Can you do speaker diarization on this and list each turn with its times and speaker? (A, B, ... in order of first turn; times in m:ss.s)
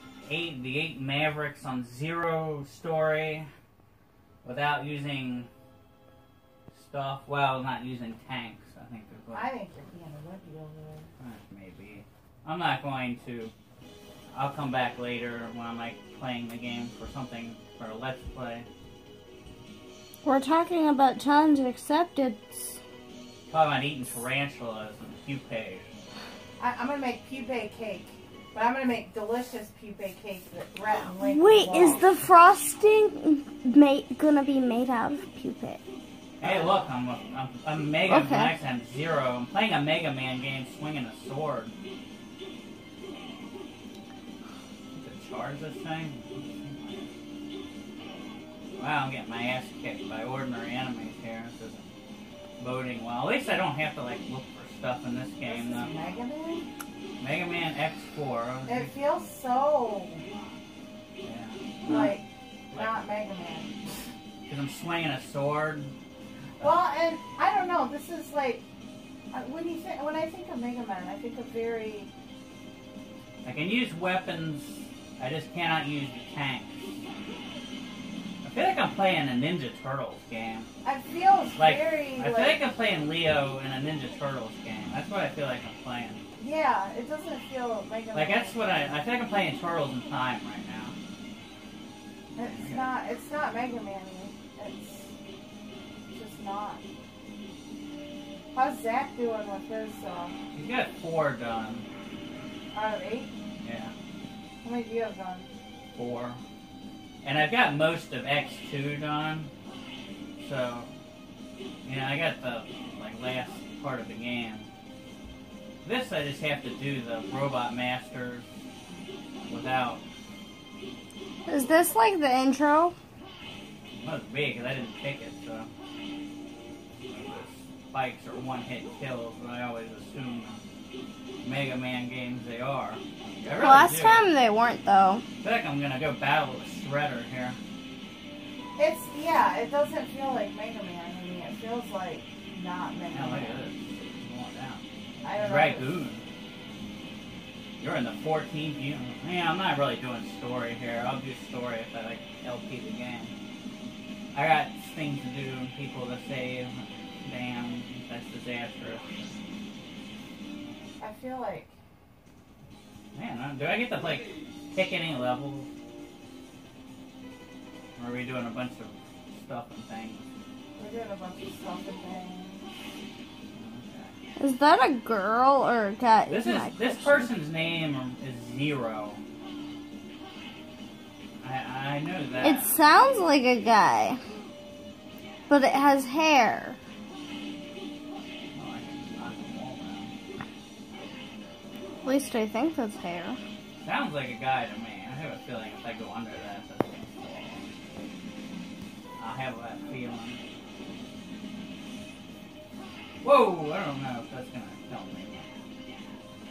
0:00.2-0:03.5 A
0:04.4-0:05.5 A
0:06.7-0:09.5 A
0:09.3-0:11.1 B
0:11.2-0:13.5 A
0:14.3-0:18.7 A
0:20.2-0:22.8 C
0:23.5-0:25.8 A
0:26.6-0:32.1 B
0:31.2-0:35.8 C
0:36.4-0:41.7 A
0:36.4-0:36.9 B
0:38.1-0:38.6 C
0:44.9-0:47.1 A
0:48.8-0:51.9 A
0:52.6-0:55.9 A
0:55.4-0:56.7 B
0:57.2-0:58.9 A
0:58.7-1:00.2 B
1:01.2-1:02.2 A
1:01.8-1:04.0 B
1:02.7-1:03.0 A
1:04.5-1:05.9 A
1:06.6-1:08.7 B
1:09.3-1:12.1 B
1:13.4-1:17.0 A
1:18.4-1:20.7 A
1:20.8-1:22.6 B
1:21.6-1:26.2 A
1:26.4-1:29.0 B
1:28.1-1:31.0 A
1:32.4-1:35.1 B
1:32.5-1:32.9 A
1:36.1-1:36.8 B
1:38.5-1:40.4 B
1:40.5-1:41.9 A
1:42.7-1:43.3 B
1:43.6-1:43.9 A
1:44.6-1:45.5 B
1:45.9-1:46.4 A
1:47.2-1:49.5 A
1:50.4-1:50.9 A
1:51.8-1:54.7 A
1:55.8-1:58.5 A
1:59.4-2:00.0 A
2:01.5-2:03.0 C
2:04.0-2:05.7 A
2:07.0-2:10.6 A
2:11.4-2:14.2 A
2:13.5-2:15.2 C
2:15.4-2:17.6 A
2:18.8-2:23.6 B
2:23.1-2:26.2 A
2:25.2-2:26.0 B
2:27.8-2:33.3 A
2:34.3-2:39.4 A
2:41.0-2:41.8 B
2:43.1-2:45.7 A
2:48.0-2:50.3 A
2:50.8-2:52.6 B
2:53.5-2:54.1 A
2:54.4-2:57.3 C
2:56.3-2:59.2 A
3:01.4-3:02.7 A
3:02.4-3:04.2 C
3:05.5-3:06.8 C
3:08.5-3:10.1 A
3:12.0-3:13.4 C
3:13.8-3:17.7 A
3:19.2-3:20.4 A
3:23.2-3:25.5 A